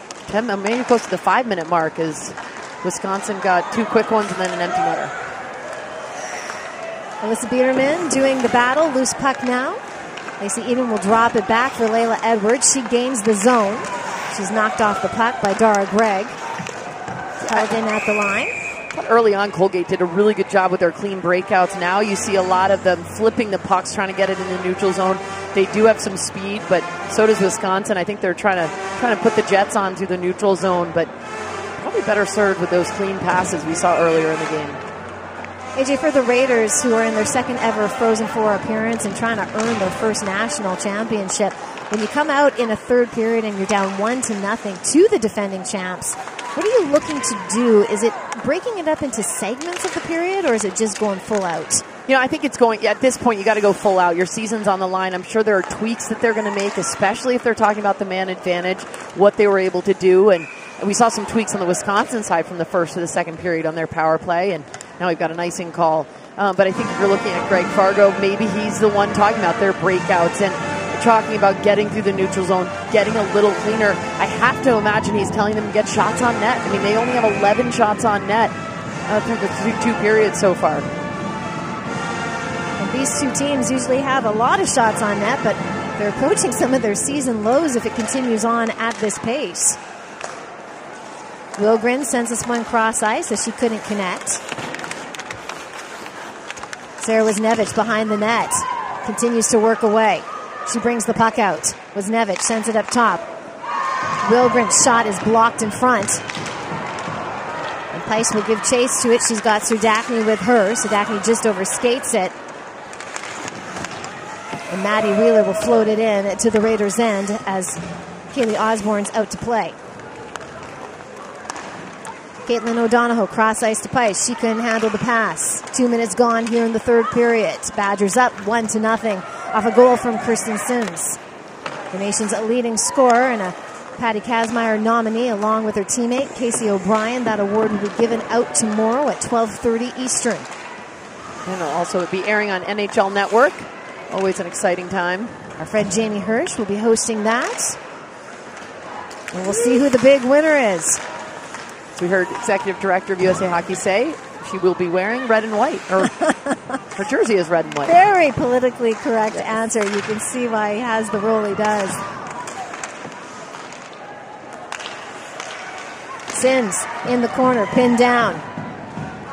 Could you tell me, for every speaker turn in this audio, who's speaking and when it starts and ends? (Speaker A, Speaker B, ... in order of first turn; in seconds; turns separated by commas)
Speaker A: 0.3-5.1, Speaker B: 7.2-9.8, Speaker B: 10.4-16.3, Speaker A: 17.4-17.7, Speaker B: 17.5-18.5, Speaker A: 18.9-31.1, Speaker A: 31.8-34.8, Speaker B: 35.8-51.8, Speaker A: 52.1-78.5, Speaker A: 79.1-80.9, Speaker B: 82.8-89.8, Speaker B: 91.6-94.4, Speaker B: 97.0-103.2, Speaker B: 104.2-106.2, Speaker B: 107.9-112.3, Speaker B: 114.7-117.8, Speaker B: 118.3-119.8, Speaker B: 122.5-131.2, Speaker B: 131.9-140.5, Speaker A: 141.4-145.3, Speaker B: 145.6-147.8, Speaker B: 149.3-151.0, Speaker A: 152.0-156.2, Speaker A: 156.9-157.9, Speaker B: 157.9-162.0, Speaker B: 166.3-168.4